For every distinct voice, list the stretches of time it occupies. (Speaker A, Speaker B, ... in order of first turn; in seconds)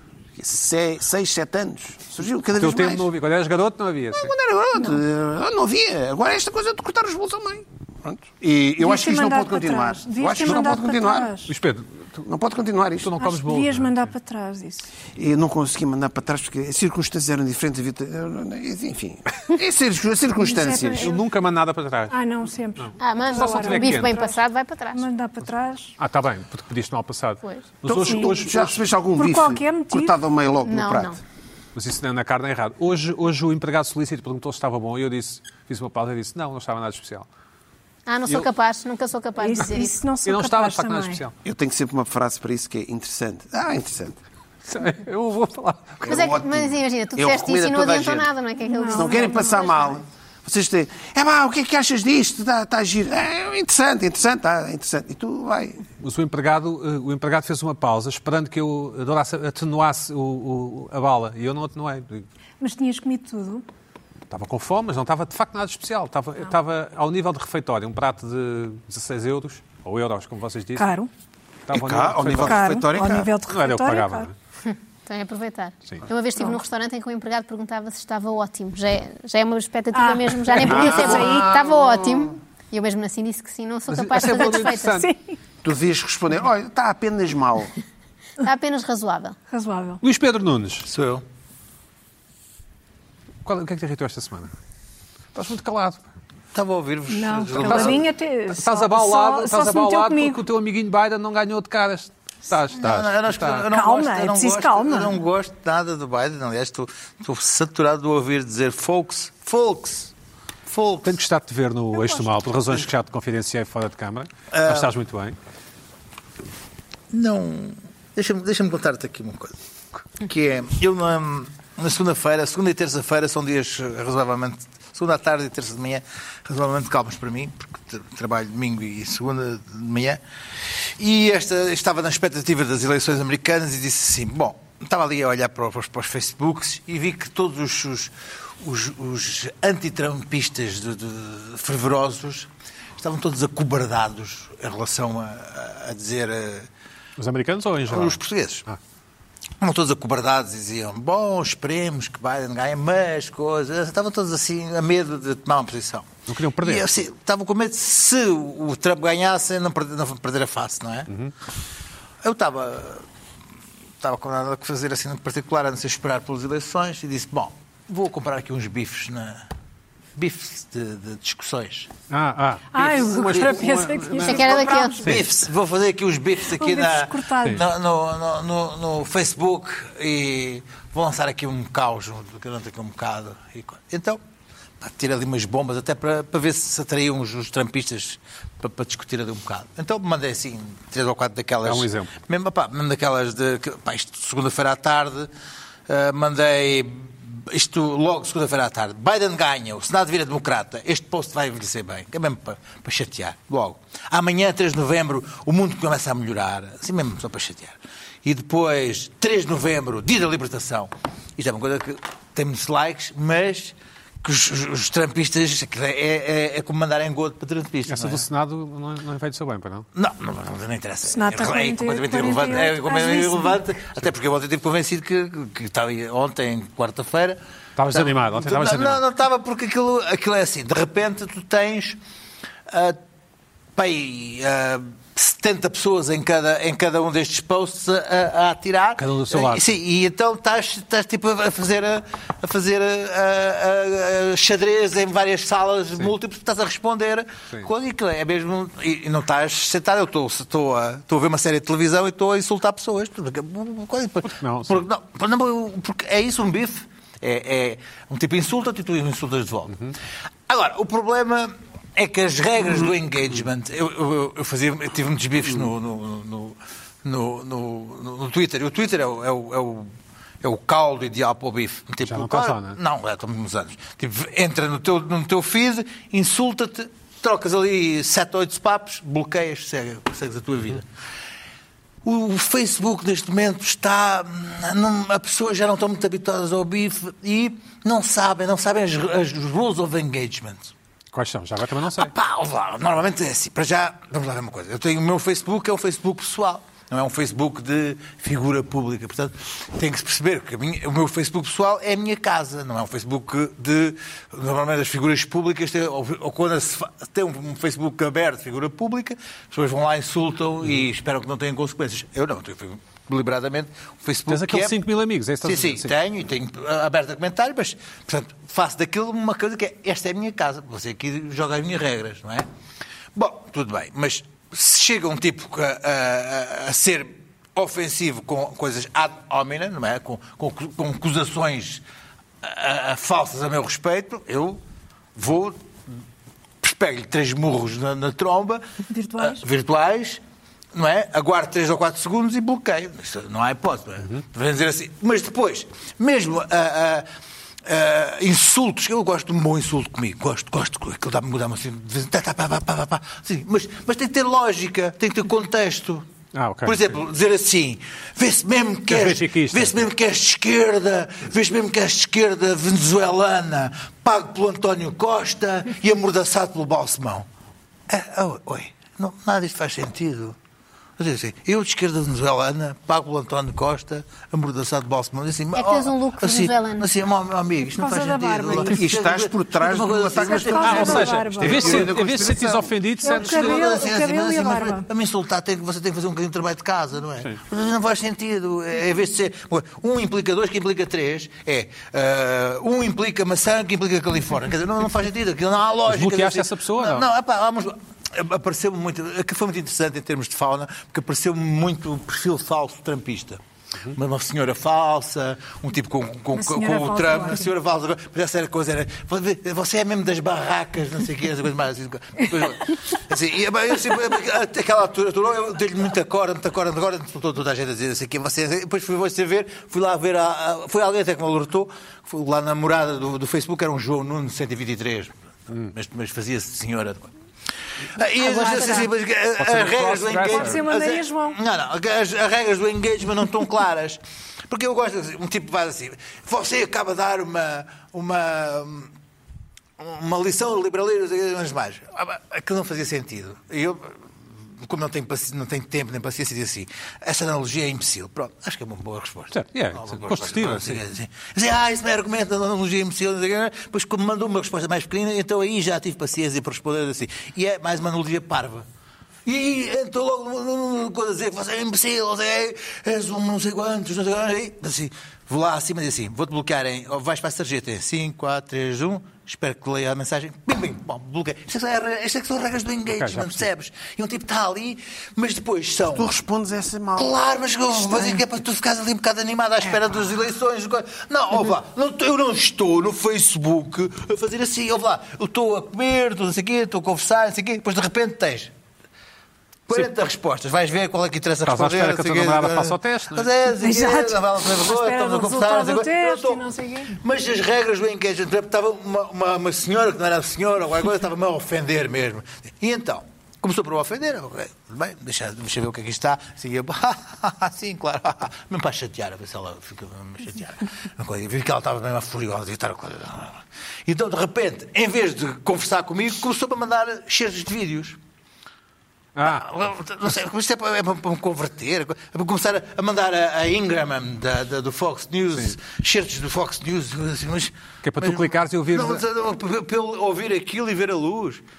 Speaker A: 0.4-3.1, 4.1-11.3, 12.2-13.1, 15.2-21.1, 27.9-31.2, 41.4-44.2, 46.0-48.3, 48.9-55.8, 71.7-73.4, 80.6-82.3, 85.6-87.7, 378.5-382.7, 475.9-477.1, 477.8-478.2
Speaker B: 2.6-4.3, 10.4-10.8, 11.5-12.1, 13.0-14.1, 21.0-22.2, 22.8-24.2, 26.0-28.8, 31.8-37.3, 40.2-41.3, 44.7-46.3, 56.0-62.3, 64.3-70.9, 71.7-72.7, 73.5-74.3, 83.9-85.1, 90.0-90.9, 93.5-94.5, 95.3-96.0, 97.6-98.0, 98.5-103.7, 111.0-115.4, 147.2-148.8, 156.3-156.9, 172.1-174.4, 191.6-192.1, 217.9-219.9, 227.8-229.0, 239.0-239.8, 254.3-254.8, 272.0-272.8, 291.1-292.1, 314.3-315.9, 356.3-356.8, 358.9-359.9, 380.6-383.6, 395.9-397.1, 429.4-430.6, 449.3-450.8, 472.9-473.5, 491.4-493.3, 519.2-519.5, 527.8-529.0
Speaker C: 8.8-11.5, 13.2-14.9, 20.4-21.2, 22.1-24.4, 24.9-26.0, 28.0-28.4, 29.2-30.2, 39.4-41.2, 48.6-49.8, 62.6-63.6, 70.8-71.1, 72.4-74.3, 79.9-81.6, 84.3-85.4, 89.5-90.0, 97.1-100.4, 103.7-105.2, 172.7-175.2, 176.5-177.6, 221.1-223.6, 338.9-339.4, 377.7-378.8, 380.2-381.9, 383.0-384.9, 406.4-407.5, 430.2-431.4, 493.6-496.9
Speaker D: 23.0-25.0, 30.6-31.2, 38.1-40.0, 46.1-50.0, 74.7-85.0, 88.4-89.4, 174.2-175.1, 375.6-376.9, 428.4-428.8
Speaker E: 90.9-91.2, 96.5-98.1, 102.7-110.1, 110.7-111.2, 114.5-114.9, 117.1-146.7, 147.9-148.6, 149.6-156.1, 156.6-161.1, 162.2-163.1, 164.0-169.4, 170.2-171.9, 175.0-184.2, 184.8-195.3, 195.9-218.2, 219.9-232.0, 232.7-233.0, 233.8-259.9, 260.5-280.9, 282.0-290.7, 291.9-314.8, 315.4-322.5, 323.1-331.8, 332.4-334.6, 335.1-335.9, 336.6-338.6, 339.2-340.2, 340.7-347.1, 347.7-356.1, 356.6-367.3, 367.9-370.4, 371.0-381.8, 383.1-403.4, 403.9-427.1, 427.9-438.9, 439.8-458.7, 459.2-476.1, 477.0-488.5, 489.7-518.0, 519.2-531.4